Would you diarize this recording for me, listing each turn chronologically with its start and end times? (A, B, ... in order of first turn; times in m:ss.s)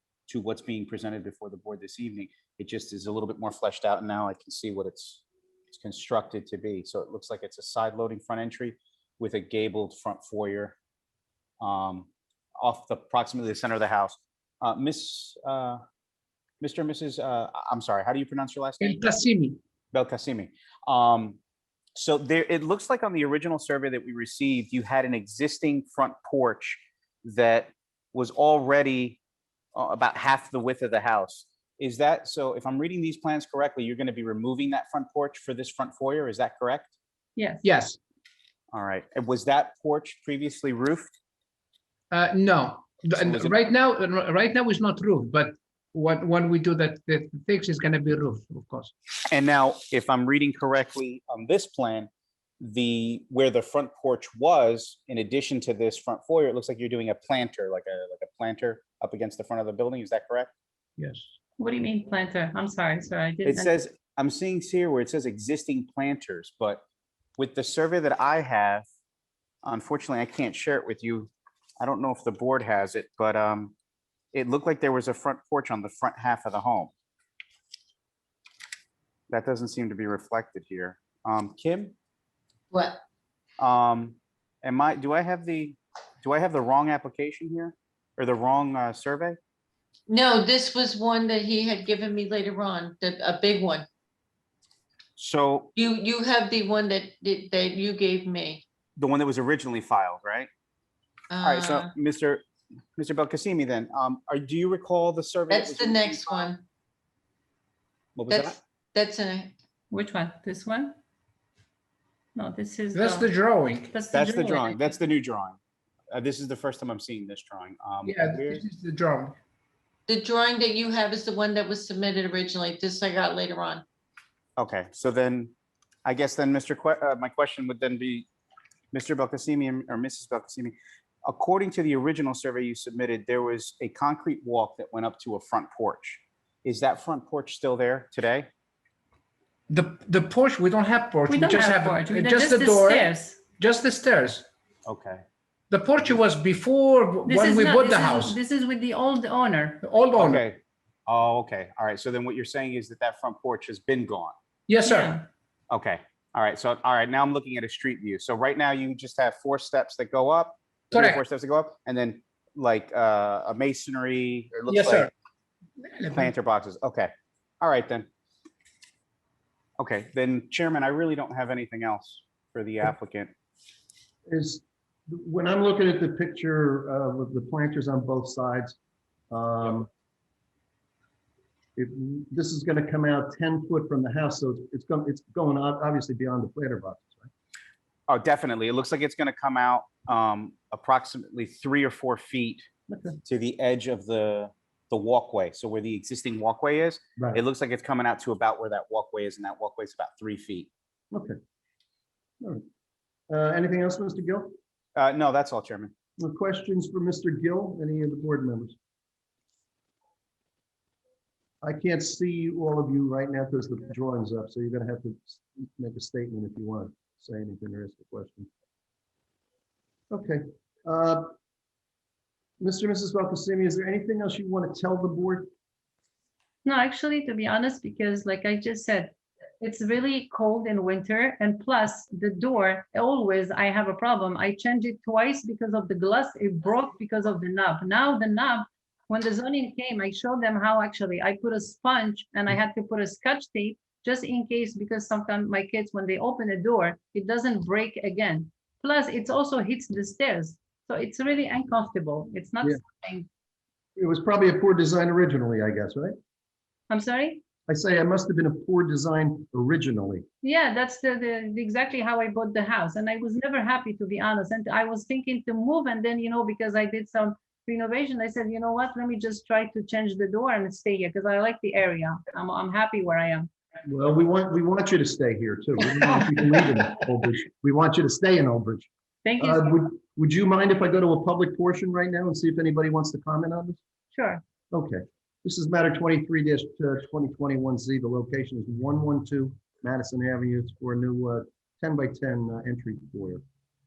0:00.3-0:10.8 A
0:11.6-0:12.1 A
0:12.6-0:15.8 A
0:16.6-0:19.0 A
0:18.8-0:19.6 B
0:19.9-0:21.4 A
0:22.0-0:29.2 A
0:29.8-0:36.9 A
0:37.4-0:37.6 C
0:37.6-0:38.0 B
0:38.7-0:41.2 A
0:42.1-0:48.9 B
0:43.2-0:43.6 A
0:49.3-0:52.1 A
0:52.6-1:00.5 A
1:01.0-1:01.3 B
1:01.6-1:03.8 C
1:03.4-1:06.8 A
1:07.4-1:08.9 A
1:09.6-1:13.7 A
1:14.3-1:16.9 A
1:19.3-1:22.0 A
1:22.7-1:23.0 D
1:23.6-1:29.4 A
1:30.1-1:33.9 D
1:35.2-1:35.7 A
1:35.8-1:38.6 D
1:39.0-1:40.5 A
1:41.3-1:41.9 D
1:41.4-1:42.4 A
1:43.0-1:46.5 A
1:45.5-1:46.6 D
1:48.2-1:48.6 A
1:48.3-1:49.5 D
1:49.9-1:51.0 C
1:52.4-1:53.3 C
1:52.9-1:54.0 B
1:53.9-1:54.9 C
1:54.1-1:55.6 A
1:56.1-1:58.6 A
1:58.0-1:59.4 B
2:00.1-2:03.8 D
2:04.6-2:05.5 A
2:06.0-2:08.3 A
2:08.9-2:18.5 A
2:19.7-2:24.5 B
2:21.3-2:23.4 C
2:24.9-2:25.2 A
2:25.7-2:28.4 B
2:27.3-2:29.8 C
2:29.8-2:30.4 B
2:30.2-2:34.4 A
2:34.7-2:35.3 B
2:34.8-2:35.2 C
2:35.7-2:45.1 A
2:40.9-2:41.2 B
2:44.7-2:45.1 B
2:45.8-2:46.3 B
2:46.1-2:48.1 A
2:49.8-2:53.3 A
2:54.3-2:58.8 E
2:59.3-2:59.9 E
3:01.8-3:07.3 E
3:08.1-3:12.7 A
3:12.9-3:13.2 E
3:13.3-3:20.7 A
3:21.1-3:21.4 E
3:23.3-3:24.5 E
3:25.0-3:25.9 A
3:26.2-3:28.8 E
3:31.6-3:38.5 E
3:40.1-3:41.3 E
3:42.6-3:45.5 E
3:46.6-4:13.3 C
4:14.0-4:16.2 E
4:16.9-4:17.4 C
4:17.7-4:20.3 E
4:20.4-4:33.5 C
4:33.9-4:38.9 E
4:39.2-4:39.8 C
4:39.4-4:43.8 E
4:44.1-4:44.4 C
4:44.7-4:53.4 E